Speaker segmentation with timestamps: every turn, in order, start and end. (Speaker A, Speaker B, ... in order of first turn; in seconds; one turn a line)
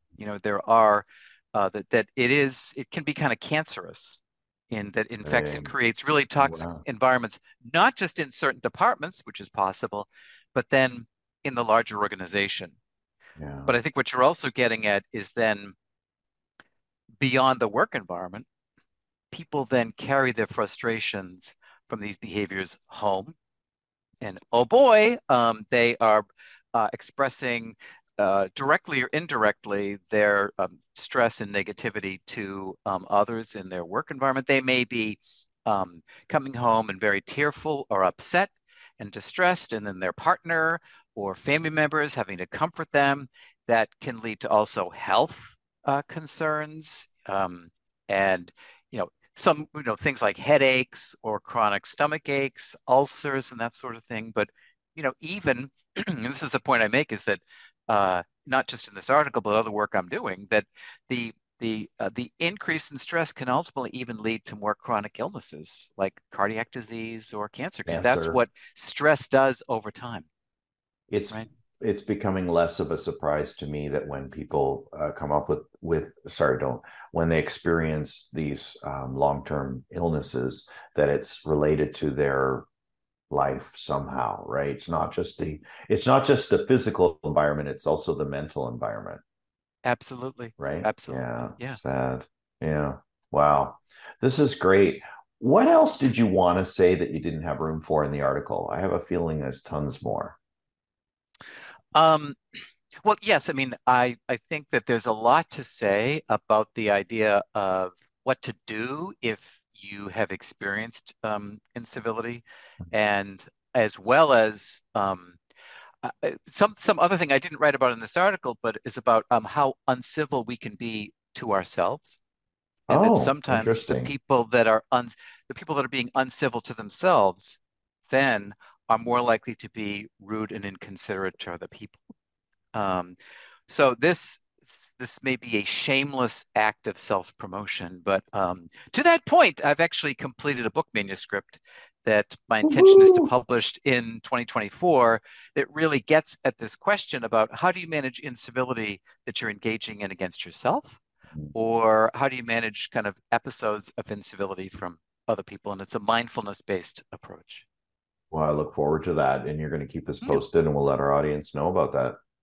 Speaker A: 0.2-12.8
Speaker B: 5.2-5.7
Speaker B: 6.4-6.8
Speaker B: 13.4-13.7
Speaker A: 13.7-15.8
Speaker A: 17.2-18.5
Speaker A: 19.3-23.4
Speaker A: 24.2-70.3
Speaker B: 67.9-68.4
Speaker B: 71.1-82.7
Speaker B: 83.3-89.2
Speaker A: 89.8-91.8
Speaker B: 90.6-100.4
Speaker A: 102.0-102.4
Speaker A: 103.0-115.4
Speaker A: 116.0-122.2
Speaker A: 122.9-132.0
Speaker B: 122.9-124.1
Speaker A: 132.7-133.2
Speaker A: 133.7-151.0
Speaker B: 142.6-143.3
Speaker A: 151.5-157.7
Speaker B: 158.3-162.2